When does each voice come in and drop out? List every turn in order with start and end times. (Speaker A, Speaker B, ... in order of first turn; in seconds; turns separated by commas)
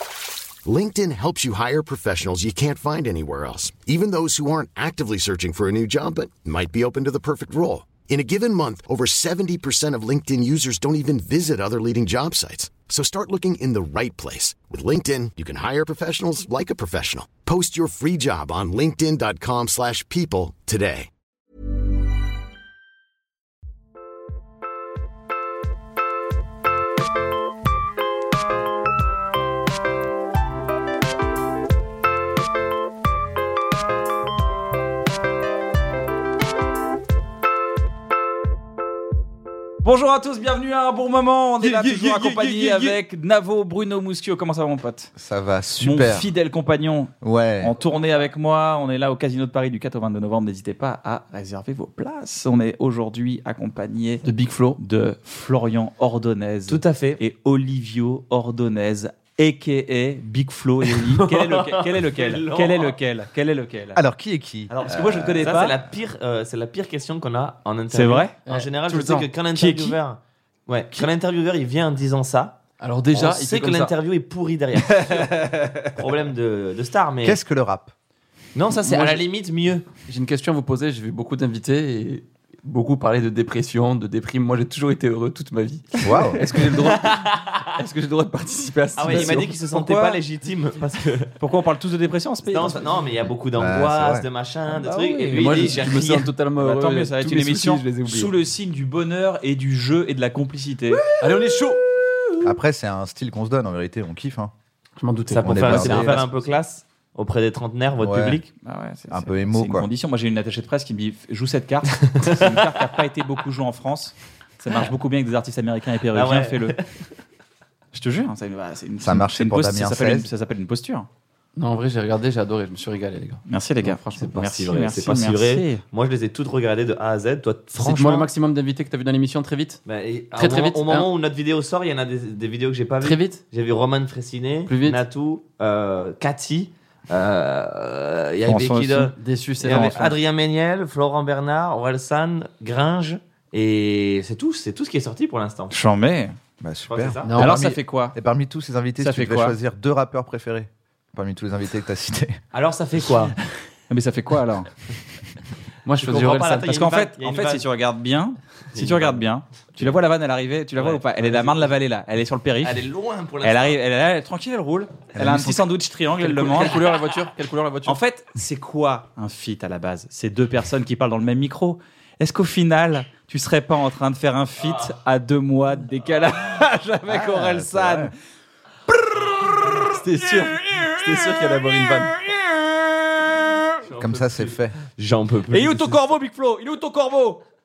Speaker A: 0.6-21.1, Speaker B: 39.8-45.1, Speaker C: 41.6-43.0, Speaker D: 45.2-46.3, Speaker B: 45.8-54.2, Speaker D: 47.2-47.7, Speaker C: 54.2-54.8, Speaker B: 54.8-64.0, Speaker E: 56.7-57.2, Speaker E: 60.9-63.0, Speaker D: 63.9-65.5, Speaker B: 64.7-65.8, Speaker E: 65.4-72.6, Speaker B: 67.9-68.3, Speaker C: 68.5-69.3, Speaker B: 69.5-70.0, Speaker C: 72.8-73.9, Speaker E: 73.1-75.3, Speaker B: 74.8-75.9, Speaker E: 75.9-77.4, Speaker D: 77.2-77.9, Speaker E: 78.5-79.9, Speaker C: 78.8-79.2, Speaker C: 80.1-87.2, Speaker D: 86.0-86.5, Speaker E: 86.6-87.7, Speaker C: 87.7-89.5, Speaker E: 89.0-91.3, Speaker B: 89.1-90.2, Speaker B: 91.4-92.9, Speaker E: 92.5-96.3, Speaker D: 93.5-94.3, Speaker B: 94.8-95.7, Speaker C: 94.9-98.3, Speaker B: 96.6-101.1, Speaker C: 101.2-101.8, Speaker D: 102.4-104.5, Speaker C: 105.0-106.1, Speaker E: 105.3-108.5, Speaker D: 105.4-106.2, Speaker B: 105.8-106.3, Speaker D: 108.0-108.4, Speaker B: 108.6-116.7, Speaker D: 109.1-109.9, Speaker E: 112.0-112.6, Speaker E: 116.1-117.0, Speaker B: 117.9-121.1, Speaker D: 119.0-120.3, Speaker C: 121.5-124.4, Speaker B: 123.5-125.8, Speaker E: 124.2-128.3, Speaker C: 127.8-129.8, Speaker E: 129.8-145.7, Speaker C: 130.3-131.1, Speaker C: 133.0-133.4, Speaker C: 134.7-135.0, Speaker B: 138.4-139.1, Speaker C: 139.2-140.1, Speaker B: 139.6-140.0, Speaker B: 145.7-146.4, Speaker D: 146.6-147.6, Speaker E: 146.9-147.4, Speaker C: 147.2-147.8, Speaker B: 147.4-148.2, Speaker D: 148.1-152.4, Speaker B: 149.0-149.6, Speaker E: 152.5-153.3, Speaker B: 153.9-154.7, Speaker C: 155.8-156.7, Speaker E: 156.0-157.7, Speaker B: 156.7-162.9, Speaker E: 158.7-159.2, Speaker E: 160.8-161.7, Speaker E: 162.6-163.8, Speaker B: 163.4-166.8, Speaker D: 165.1-165.6, Speaker C: 166.2-168.0, Speaker B: 167.8-178.1, Speaker E: 174.6-174.9, Speaker D: 177.1-178.1, Speaker B: 178.9-183.7, Speaker C: 179.8-182.1, Speaker E: 183.8-186.0, Speaker D: 184.0-184.7, Speaker B: 185.5-187.4